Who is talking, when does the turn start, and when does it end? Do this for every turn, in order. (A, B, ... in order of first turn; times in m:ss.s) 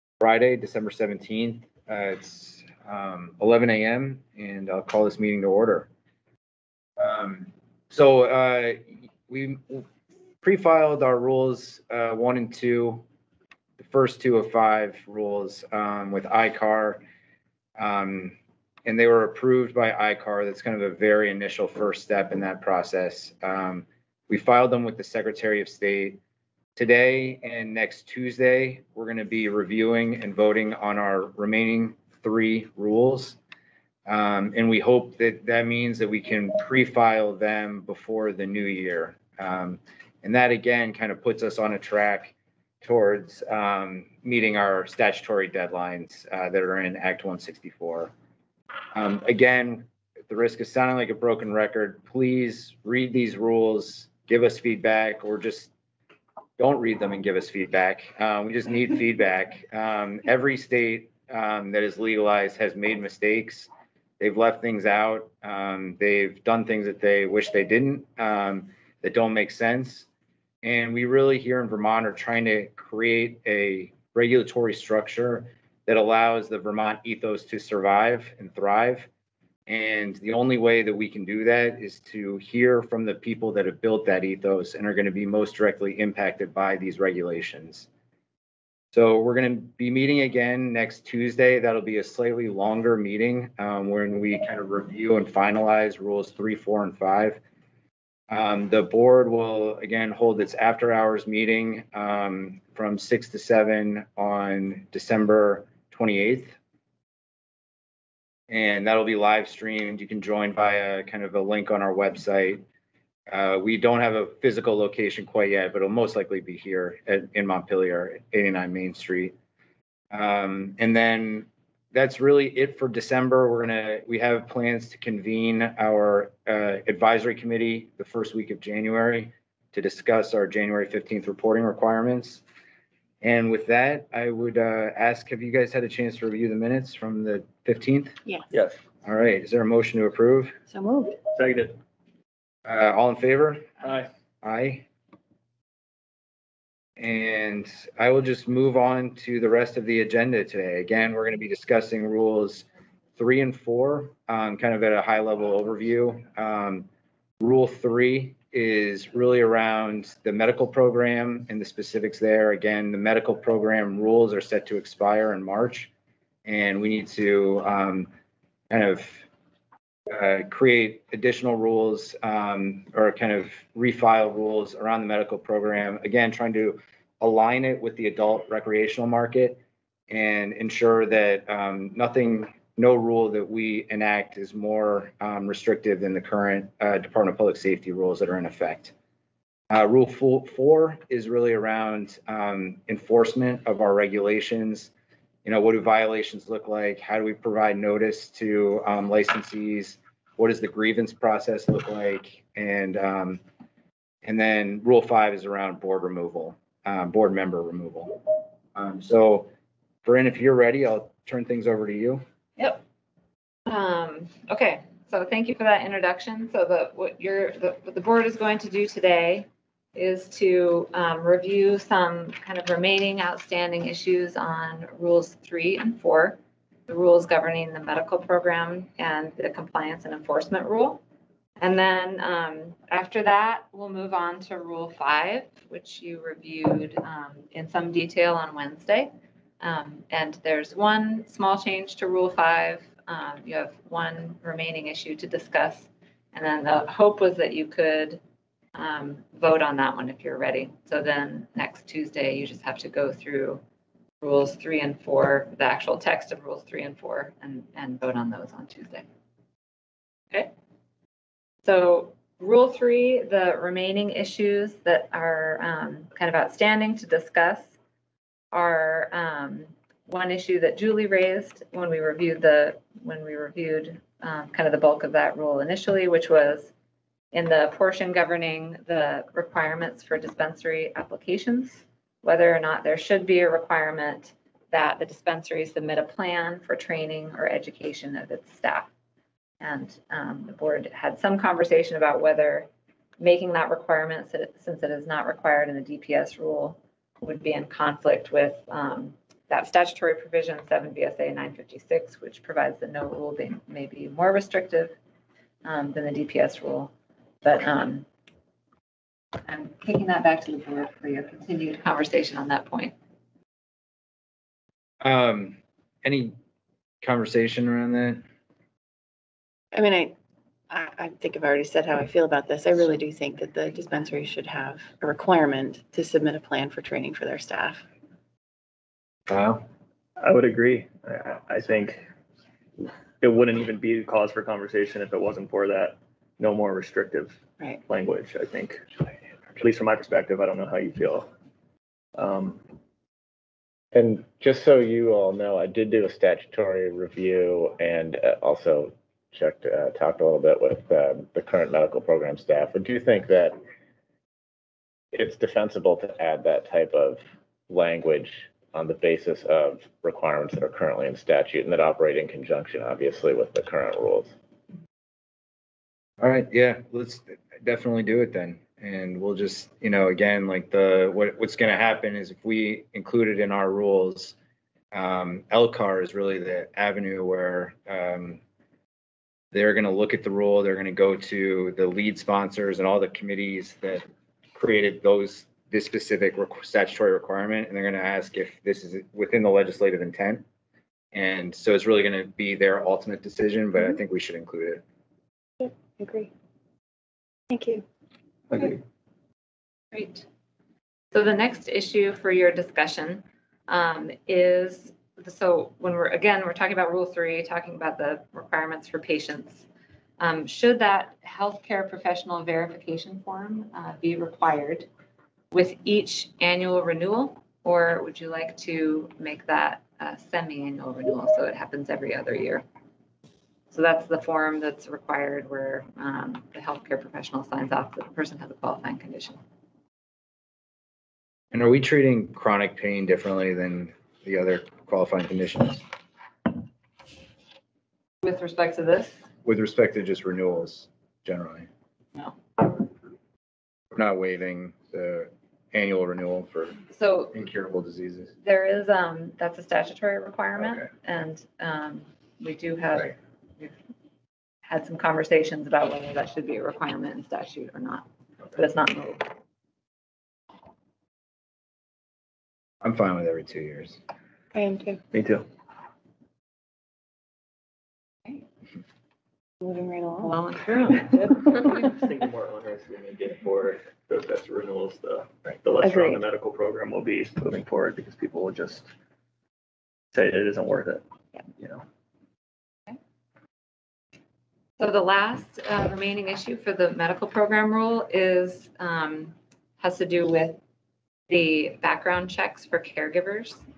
0:00.2-0:05.9 A
0:07.0-0:09.9 A
0:10.4-0:13.0 A
0:13.8-0:17.0 A
0:17.8-0:26.2 A
0:26.8-0:33.4 A
0:34.1-0:48.1 A
0:48.9-0:55.7 A
0:56.6-1:10.1 A
1:10.6-1:19.1 A
1:19.7-1:27.9 A
1:28.9-1:37.4 A
1:38.3-1:46.6 A
1:48.5-1:52.6 A
1:53.3-1:59.4 A
2:00.1-2:12.4 A
2:13.2-2:18.2 A
2:18.5-2:18.8 B
2:19.0-2:20.6 A
2:20.7-2:21.2 C
2:21.3-2:21.8 B
2:22.6-2:23.8 A
2:23.8-2:24.1 B
2:24.4-2:24.9 A
2:27.0-2:36.9 A
2:37.4-2:45.9 A
2:46.4-2:48.1 A
2:48.7-2:49.3 A
2:50.1-3:08.9 A
3:09.7-3:14.9 A
3:15.4-3:23.4 A
3:24.2-3:29.5 A
3:30.0-3:32.2 A
3:33.7-3:51.0 D
3:51.6-4:08.2 D
4:08.8-4:13.6 D
4:14.2-4:19.1 D
4:21.6-4:27.8 D
4:28.5-4:36.7 D
4:37.3-4:48.9 D
4:49.6-5:04.9 D
5:05.6-5:08.1 D
5:09.5-5:13.0 D
5:15.0-5:16.4 A
5:17.0-5:18.2 A
5:19.7-5:20.2 C
5:20.7-5:27.8 C
5:29.3-5:29.6 A
5:30.2-5:32.0 B
5:33.2-5:38.8 B
5:39.6-5:41.3 B
5:42.2-5:42.6 B
5:43.9-5:53.6 E
5:55.1-6:04.3 E
6:06.2-6:14.4 A
6:14.9-6:18.4 A
6:19.5-6:30.4 A
6:31.1-6:34.8 A
6:35.6-6:36.3 C
6:37.5-6:37.8 C
6:39.9-6:40.3 D
6:41.1-6:49.7 D
6:50.2-6:54.9 D
6:55.5-7:02.6 D
7:03.7-7:09.4 D
7:11.5-7:15.8 A
7:18.2-7:19.2 D
7:19.4-7:21.7 A
7:23.9-7:26.8 A
7:26.9-7:27.3 D
7:27.3-7:28.3 A
7:28.4-7:33.7 D
7:30.6-7:30.9 A
7:34.7-7:39.3 D
7:42.8-7:44.0 A
7:44.5-7:45.0 C
7:45.1-7:45.5 B
7:49.6-7:50.4 C
7:50.2-7:51.3 D
7:51.2-7:51.6 C
7:51.5-7:58.9 B
7:55.8-7:56.2 C
8:00.1-8:01.0 B
8:01.6-8:01.8 B
8:04.8-8:10.6 D
8:11.3-8:13.6 D